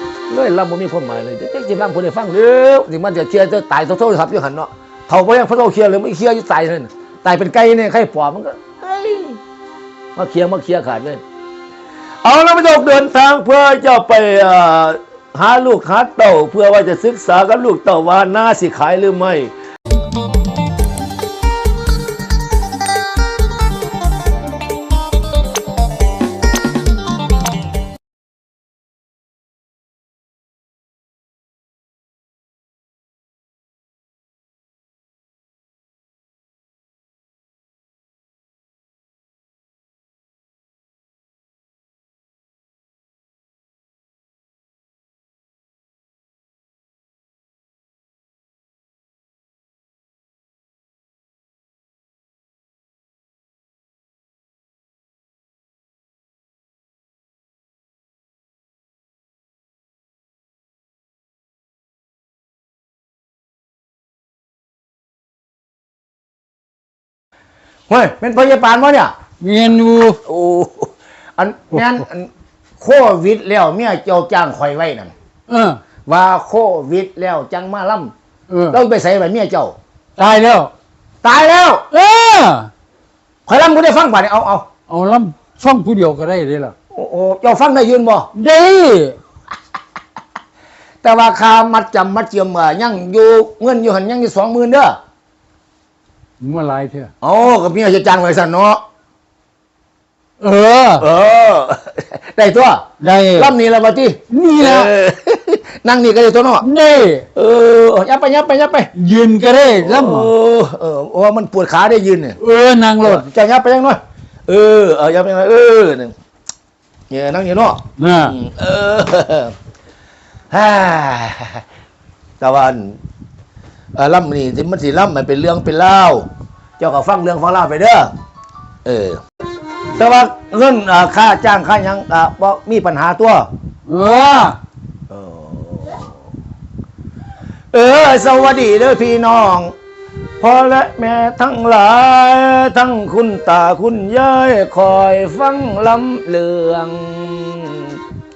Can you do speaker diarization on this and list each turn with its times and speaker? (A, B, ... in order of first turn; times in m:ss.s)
0:00.3-0:09.4 A
0:10.2-0:11.2 A
0:12.2-0:19.5 A
1:07.9-1:09.1 A
1:09.4-1:10.2 B
1:10.2-1:15.1 A
1:15.5-1:15.8 B
1:16.0-1:18.1 A
1:18.5-1:18.8 B
1:18.7-1:19.8 A
1:20.2-1:20.7 B
1:21.2-1:21.8 A
1:21.9-1:22.7 B
1:23.4-1:24.6 A
1:24.9-1:26.7 B
1:26.9-1:28.3 A
1:28.3-1:29.2 B
1:31.0-1:35.0 A
1:36.4-1:37.1 B
1:37.2-1:38.8 A
1:40.4-1:41.0 B
1:41.0-1:42.8 A
1:43.0-1:43.5 B
1:43.3-1:46.7 A
1:44.3-1:44.9 B
1:46.6-1:47.2 B
1:47.3-1:48.9 A
1:48.9-1:50.3 B
1:49.8-1:52.4 A
1:52.4-1:53.2 B
1:53.0-1:56.1 A
1:57.1-1:59.5 A
1:58.0-1:58.4 B
2:00.5-2:01.6 A
2:02.4-2:03.0 A
2:03.9-2:06.2 A
2:06.8-2:08.1 A
2:08.8-2:09.2 A
2:10.0-2:13.5 A
2:13.9-2:14.6 B
2:15.1-2:16.0 A
2:17.7-2:19.7 A
2:20.4-2:28.0 A